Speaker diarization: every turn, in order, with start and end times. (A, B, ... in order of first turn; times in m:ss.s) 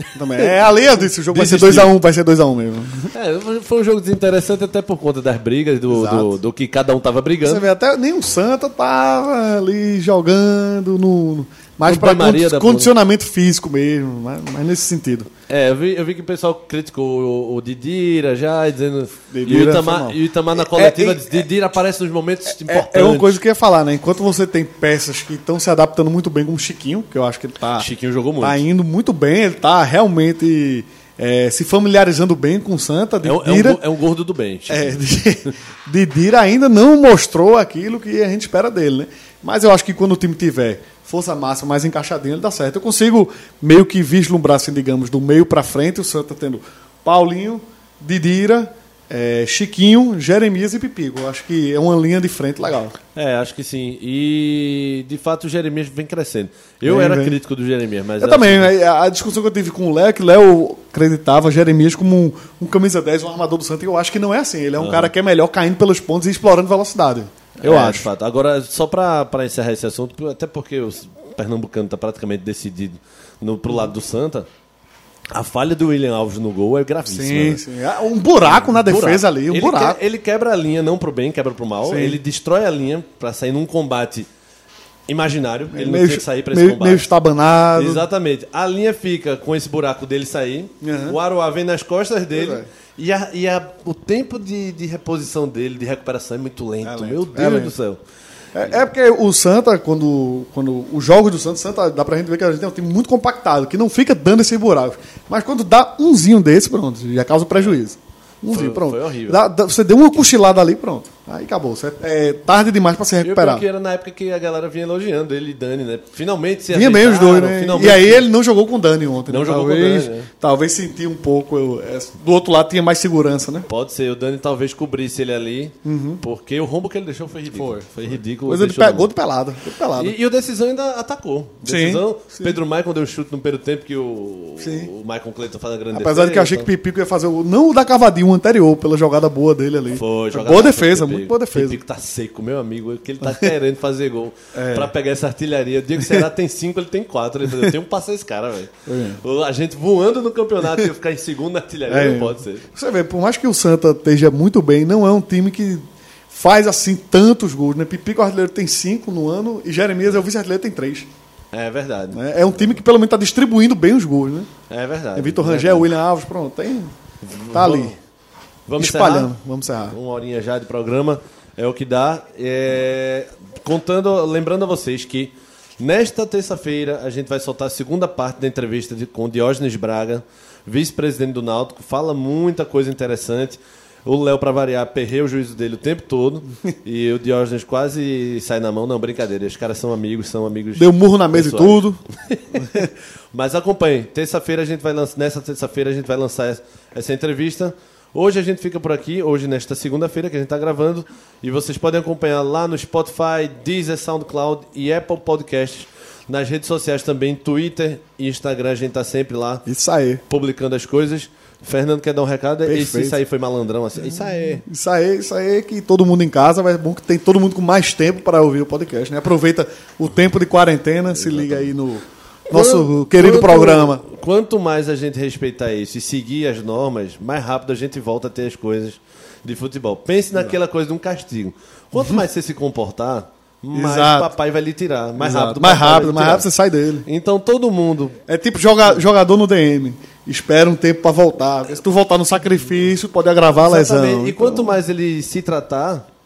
0:00.1-0:03.1 A
0:00.4-0:01.9 B
0:03.1-0:07.6 B
0:05.9-0:06.3 A
0:07.4-0:15.3 A
0:11.8-0:12.9 B
0:15.5-0:23.4 B
0:19.3-0:21.4 A
0:22.5-0:27.9 A
0:27.8-0:28.6 B
0:28.4-0:33.8 A
0:33.2-0:35.0 B
0:34.7-0:52.9 A
0:53.1-0:58.7 B
0:56.8-0:57.4 A
0:58.2-1:08.0 A
1:04.8-1:05.1 B
1:07.6-1:14.5 B
1:15.3-1:17.6 B
1:17.1-1:20.0 A
1:18.5-1:24.3 B
1:21.8-1:22.2 A
1:25.1-1:27.1 B
1:25.7-1:28.0 A
1:27.7-1:38.0 B
1:30.8-1:31.2 A
1:32.3-1:32.7 A
1:36.8-1:37.7 A
1:38.5-1:53.6 A
1:48.5-1:49.4 B
1:53.2-1:58.3 B
1:56.7-2:03.7 A
1:59.3-2:00.3 B
2:03.7-2:09.1 B
2:05.8-2:06.2 A
2:07.5-2:07.9 A
2:08.4-2:10.2 A
2:10.0-2:16.7 B
2:11.6-2:12.6 A
2:14.6-2:14.9 A
2:15.9-2:21.8 A
2:19.9-2:32.6 B
2:23.2-2:23.5 A
2:24.5-2:24.9 A
2:28.9-2:29.2 A
2:31.9-2:41.1 A
2:41.5-2:42.3 B
2:42.1-2:44.5 A
2:44.7-2:45.9 B
2:45.2-2:46.9 A
2:47.2-2:48.0 B
2:47.5-2:47.9 A
2:48.7-2:49.3 B
2:48.8-2:50.0 A
2:49.9-3:29.7 B
3:10.8-3:12.0 A
3:29.6-3:30.2 A
3:30.3-3:34.6 B
3:32.6-3:33.2 A
3:34.6-3:44.0 A
3:41.2-3:41.6 B
3:42.5-3:56.5 B
3:52.0-3:52.2 A
3:53.7-3:54.3 A
3:55.2-3:57.0 A
3:57.0-3:58.2 B
3:58.3-4:04.8 A
4:03.6-4:06.0 B